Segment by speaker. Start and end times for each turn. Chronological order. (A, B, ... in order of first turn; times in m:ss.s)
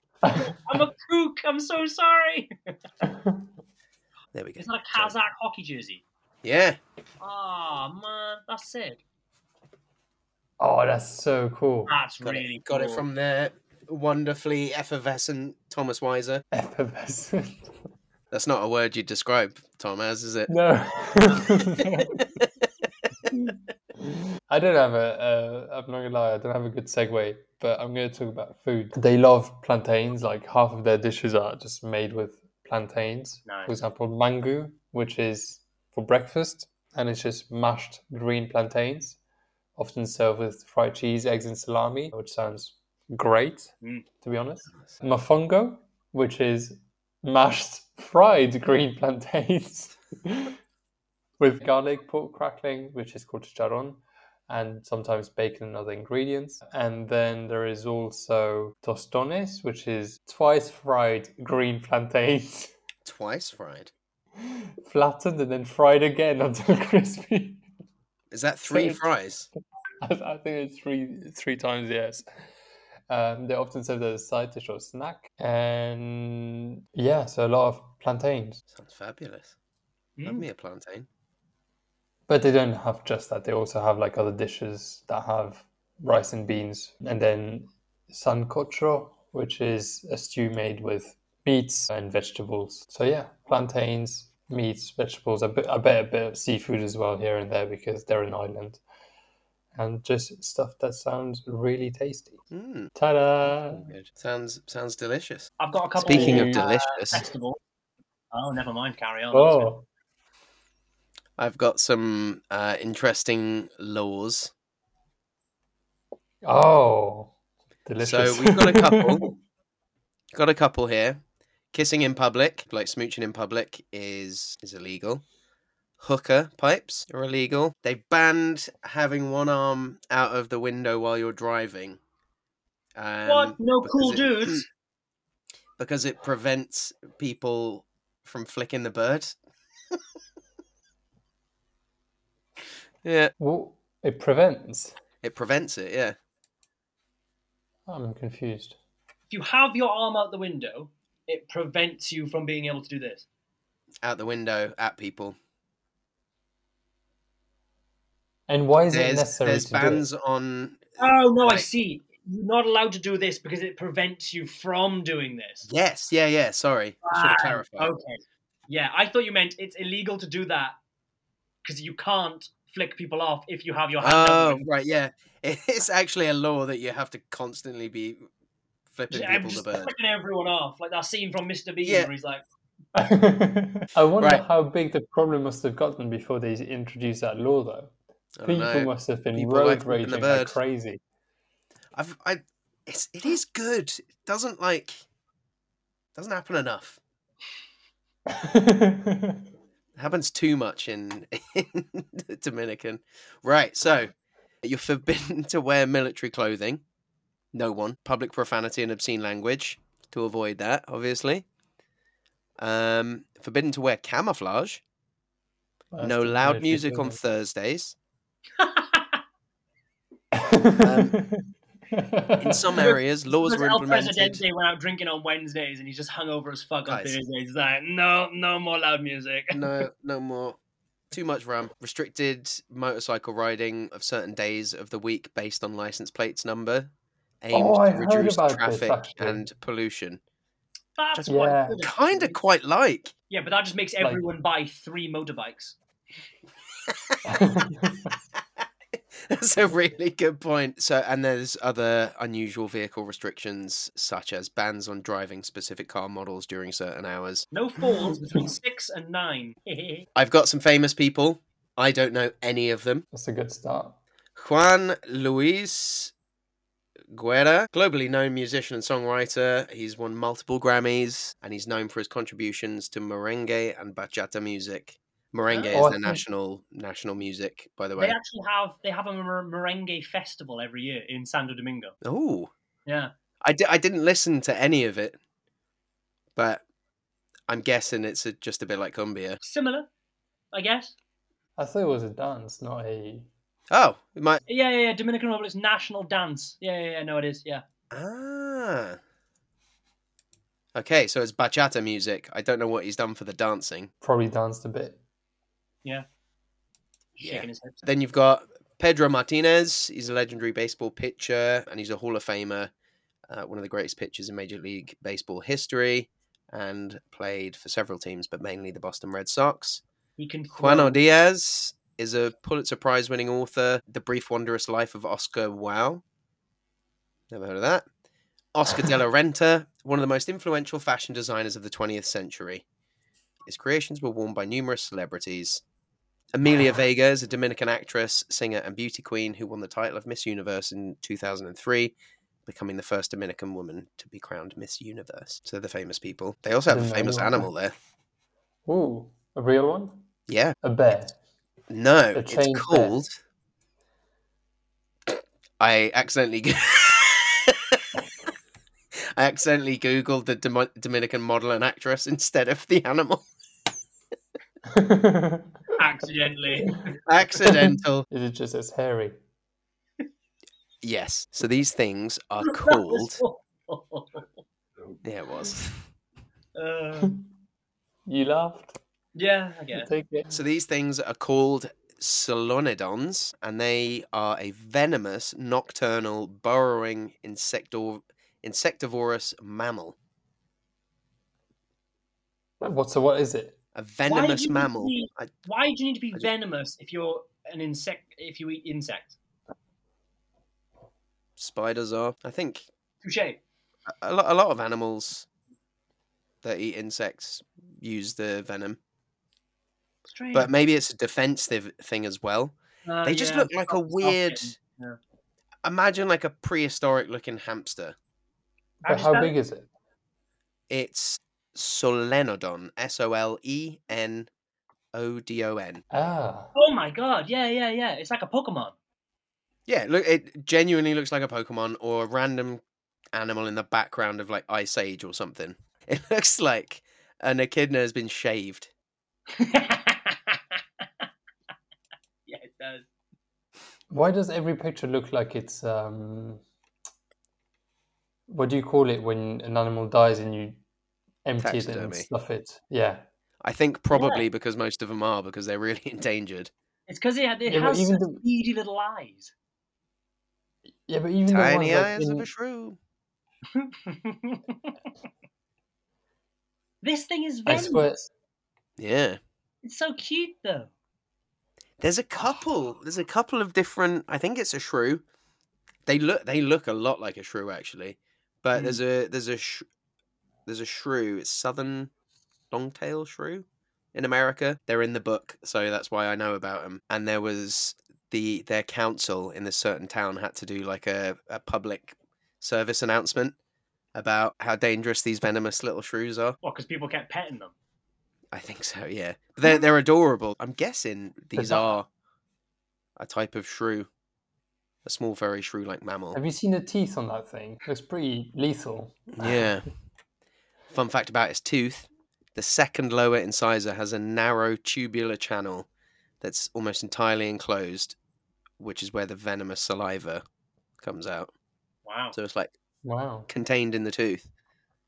0:00.2-0:00.5 A
0:00.3-0:02.5 B
0:03.0-0:03.5 A
0:04.3-0:05.2 C
0:04.6-0:06.0 B
0:06.4-0:06.8 C
0:07.2-0:09.0 B
0:10.6-0:11.9 A
0:11.9-0:13.1 B
0:12.2-0:16.4 C
0:16.5-0:17.7 A
0:18.3-0:20.5 C
0:20.5-0:22.2 A
0:22.2-0:22.5 C
0:23.3-0:39.2 A
0:33.5-0:33.7 B
0:39.8-0:50.6 A
0:51.4-1:02.7 A
1:03.0-1:03.9 C
1:04.4-1:07.6 A
1:08.3-1:09.5 C
1:08.7-1:09.0 A
1:10.0-1:12.2 A
1:13.1-1:18.6 A
1:18.7-1:19.6 C
1:20.2-1:20.5 B
1:20.3-1:21.1 C
1:22.3-1:38.8 A
1:39.8-1:42.4 A
1:42.5-1:42.9 C
1:43.0-1:43.9 A
1:43.5-1:45.5 C
1:45.6-1:47.6 B
1:46.0-1:47.3 C
1:46.0-1:46.6 A
1:48.3-1:49.7 B
1:49.3-1:49.9 A
1:51.4-1:54.5 C
1:56.4-1:57.3 A
1:57.8-1:59.3 A
1:58.0-1:59.3 C
2:00.3-2:01.2 C
2:01.7-2:05.2 C
2:06.0-2:12.0 C
2:13.0-2:14.6 C
2:13.3-2:14.6 B
2:15.8-2:19.4 C
2:23.0-2:23.3 C
2:23.4-2:25.0 A
2:25.2-2:26.2 C
2:27.9-2:28.8 A
2:29.3-2:33.3 B
2:34.0-2:35.4 C
2:38.5-2:40.0 A
2:38.9-2:41.7 C
2:41.0-2:45.7 B
2:45.6-2:47.9 C
2:47.1-2:50.8 B
2:51.6-2:54.7 B
2:54.0-2:58.2 C
2:58.9-2:59.9 C
2:59.1-3:02.4 B
3:01.8-3:02.1 C
3:03.0-3:07.9 A
3:08.4-3:10.6 C
3:08.4-3:11.0 A
3:12.0-3:15.0 C
3:16.2-3:17.0 C
3:18.3-3:19.4 A
3:20.0-3:24.1 C
3:24.6-3:26.8 C
3:27.5-3:31.5 C
3:32.6-3:34.8 C
3:35.9-3:37.2 A
3:36.0-3:38.0 C
3:38.6-3:39.2 B
3:40.3-3:42.7 A
3:40.7-3:41.2 C
3:42.4-3:44.4 C
3:43.3-3:49.7 B
3:46.9-3:47.2 C
3:49.5-3:50.6 C
3:51.1-3:56.9 C
3:57.4-4:00.2 C
3:57.5-3:59.4 A
4:01.0-4:02.4 B
4:01.1-4:03.1 C
4:01.3-4:01.8 A
4:03.3-4:05.8 B
4:06.9-4:07.2 C
4:07.2-4:08.1 A
4:09.2-4:17.5 C
4:17.5-4:20.1 B
4:20.2-4:23.0 C
4:23.1-4:24.0 A
4:24.4-4:26.1 C
4:27.1-4:38.2 C
4:35.5-4:35.8 B
4:35.7-4:36.2 A
4:38.0-4:42.0 B
4:42.0-4:42.5 C
4:42.9-4:43.1 B
4:43.4-4:45.2 C
4:46.4-4:46.6 C
4:47.5-4:49.4 C
4:49.4-4:49.9 B
4:50.5-4:51.0 B
4:51.6-4:53.3 A
4:53.7-4:54.4 C
4:54.5-4:57.6 B
4:57.9-4:59.0 C
5:00.8-5:03.9 C
5:04.0-5:05.0 A
5:07.2-5:07.8 B
5:07.2-5:12.7 C
5:13.3-5:19.8 C
5:20.2-5:21.0 B
5:20.6-5:26.0 C
5:27.3-5:27.9 C
5:28.6-5:32.6 C
5:33.5-5:35.6 C
5:36.3-5:41.9 C
5:42.5-5:47.8 C
5:46.7-5:47.5 A
5:48.7-5:50.0 A
5:50.3-5:50.6 C
5:50.6-5:51.2 A
5:51.7-5:53.2 C
5:52.1-5:53.0 A
5:55.1-5:57.8 C
5:59.2-6:03.2 C
6:04.7-6:05.6 A
6:05.8-6:07.0 B
6:06.6-6:06.9 A
6:07.1-6:08.1 C
6:07.4-6:09.2 A
6:10.8-6:13.2 C
6:12.4-6:14.3 B
6:15.0-6:15.8 C
6:16.6-6:17.2 B
6:18.1-6:18.8 A
6:19.2-6:19.9 B
6:19.7-6:20.4 A
6:20.3-6:30.0 C
6:32.6-6:33.6 A
6:33.8-6:35.3 C
6:34.1-6:39.2 B
6:41.4-6:42.7 C
6:43.0-6:43.4 B
6:43.9-6:45.3 C
6:46.4-6:48.8 C
6:50.1-6:50.5 B
6:50.3-6:54.6 C
6:52.9-6:55.0 B
6:55.6-6:58.0 C
6:58.8-6:59.3 B
6:58.9-6:59.7 A
7:00.7-7:04.3 C
7:04.9-7:05.8 C
7:05.9-7:06.5 A
7:06.6-7:08.7 B
7:09.7-7:12.6 C
7:13.1-7:18.7 C
7:19.3-7:20.8 B
7:22.3-7:22.8 B
7:23.9-7:26.4 A
7:28.3-7:30.6 A
7:31.2-7:33.0 A
7:31.4-7:32.1 C
7:33.4-7:36.5 C
7:33.9-7:34.2 B
7:36.9-7:39.3 B
7:37.5-7:38.2 A
7:40.9-7:42.3 A
7:41.3-7:42.8 C
7:43.6-7:44.6 B
7:46.8-7:47.9 B
7:47.5-7:48.1 A
7:48.8-7:49.2 C
7:49.6-7:50.7 B
7:51.8-7:55.0 C
7:55.9-7:59.7 C
7:58.6-7:58.8 B
8:00.5-8:01.9 C
8:02.5-8:13.4 C
8:14.0-8:16.4 C
8:16.4-8:17.5 B
8:18.3-8:21.9 C
8:21.4-8:21.7 A
8:23.0-8:23.9 C
8:24.8-8:26.2 C
8:26.1-8:29.5 A
8:29.1-8:29.7 C
8:30.7-8:35.7 C
8:36.2-8:38.0 C
8:38.6-8:40.2 C
8:40.8-8:41.3 C
8:41.9-8:42.2 B
8:42.1-8:42.5 C
8:42.8-8:43.3 A
8:43.3-8:44.3 C